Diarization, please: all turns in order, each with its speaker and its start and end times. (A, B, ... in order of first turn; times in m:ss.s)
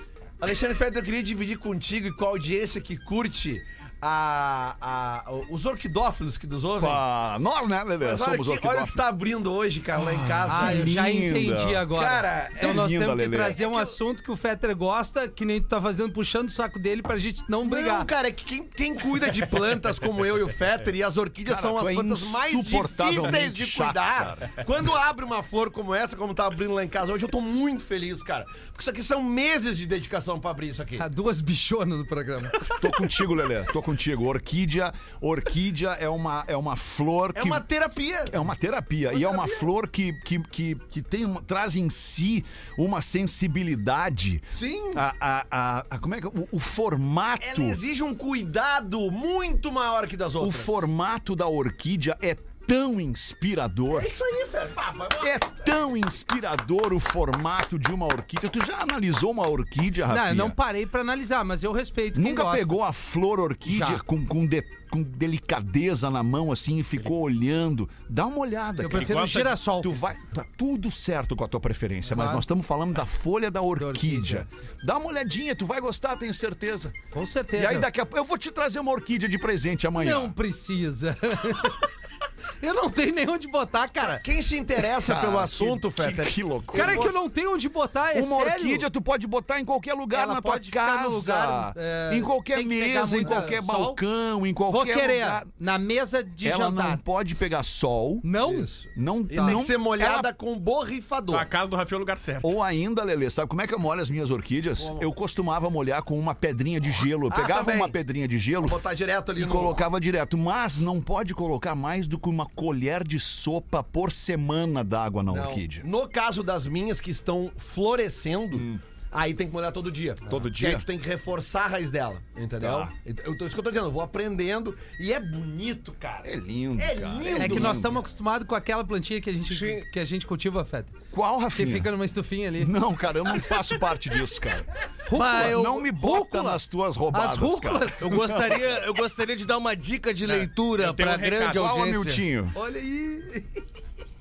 0:00.4-0:07.0 A
0:06.8-0:09.0 B
0:08.0-0:10.9 A
0:09.9-0:11.9 B
0:10.5-0:18.1 C
0:11.9-0:12.9 A
0:12.6-0:13.6 B
0:13.4-0:13.9 A
0:17.6-0:31.0 A
0:21.4-0:24.6 B
0:31.0-0:32.8 C
0:32.7-0:37.6 B
0:37.3-0:38.4 A
0:38.2-0:47.8 B
0:39.1-0:39.6 A
0:44.5-0:45.0 A
0:47.4-0:50.9 A
0:50.4-0:54.1 B
0:53.9-0:55.8 A
0:55.2-1:00.6 B
1:00.1-1:02.8 C
1:02.1-1:16.9 B
1:03.6-1:04.0 C
1:08.8-1:09.9 C
1:08.9-1:09.4 D
1:12.1-1:12.4 C
1:13.8-1:14.4 C
1:17.1-1:17.9 C
1:17.6-1:20.3 B
1:20.0-1:21.9 C
1:22.6-1:24.2 C
1:24.0-1:27.2 A
1:25.0-1:27.2 B
1:26.7-1:28.9 C
1:28.1-1:35.5 B
1:30.1-1:34.0 C
1:34.7-1:37.0 C
1:36.4-1:38.3 B
1:38.2-1:38.7 C
1:38.4-1:41.5 A
1:38.9-1:40.3 B
1:39.3-1:39.6 C
1:41.3-1:42.6 D
1:42.4-1:48.8 B
1:44.8-1:45.1 A
1:47.3-1:48.0 A
1:48.6-1:49.8 A
1:49.4-1:55.9 B
1:55.3-2:08.0 A
1:58.5-1:58.8 B
2:00.2-2:00.9 B
2:02.6-2:02.9 B
2:06.2-2:07.9 B
2:07.4-2:11.0 C
2:09.5-2:09.8 E
2:11.1-2:11.9 B
2:11.5-2:12.7 C
2:12.6-2:18.8 B
2:15.0-2:18.2 C
2:15.1-2:15.8 E
2:18.0-2:22.2 E
2:20.2-2:21.7 D
2:21.5-2:22.6 B
2:22.5-2:23.6 C